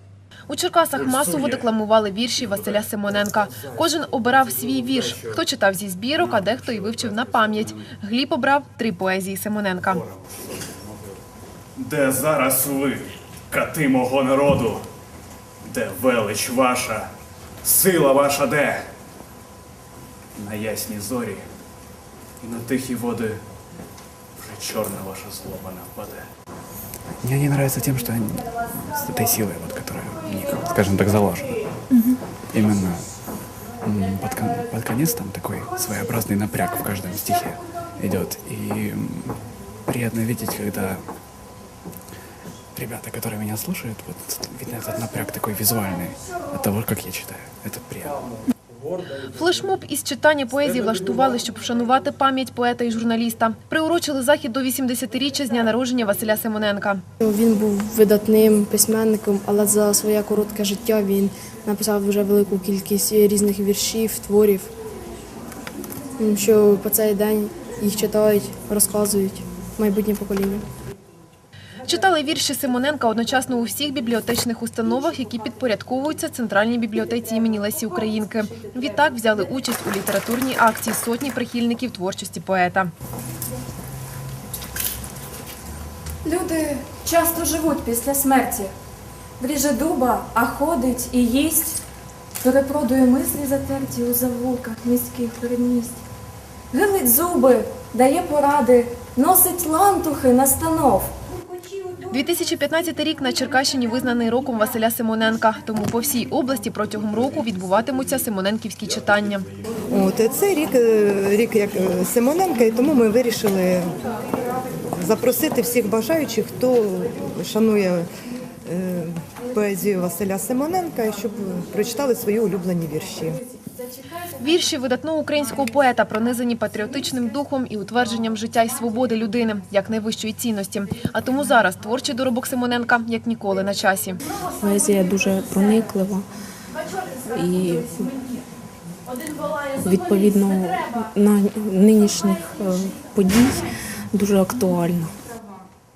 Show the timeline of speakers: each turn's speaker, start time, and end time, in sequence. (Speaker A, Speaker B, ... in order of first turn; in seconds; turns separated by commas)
Speaker A: 0.5-10.0, Speaker B: 11.8-12.9, Speaker B: 13.5-14.8, Speaker B: 15.7-17.0, Speaker C: 15.7-17.0, Speaker B: 17.6-18.7, Speaker C: 20.4-21.4, Speaker B: 20.5-21.2, Speaker C: 22.4-23.4, Speaker B: 22.5-23.3, Speaker B: 24.4-26.1, Speaker C: 24.4-26.2, Speaker C: 27.2-31.7, Speaker C: 32.5-33.0, Speaker C: 33.8-41.0, Speaker C: 42.8-48.2, Speaker A: 49.2-57.0, Speaker D: 57.2-64.7, Speaker D: 66.2-70.7, Speaker A: 71.8-82.9, Speaker E: 86.2-88.7, Speaker E: 89.4-91.8, Speaker E: 92.4-96.0, Speaker E: 96.7-101.2, Speaker A: 102.1-109.5, Speaker F: 109.9-113.9, Speaker F: 114.9-118.1, Speaker F: 118.7-123.4, Speaker A: 124.4-134.2, Speaker G: 134.6-136.3, Speaker G: 137.2-138.1, Speaker G: 139.8-145.1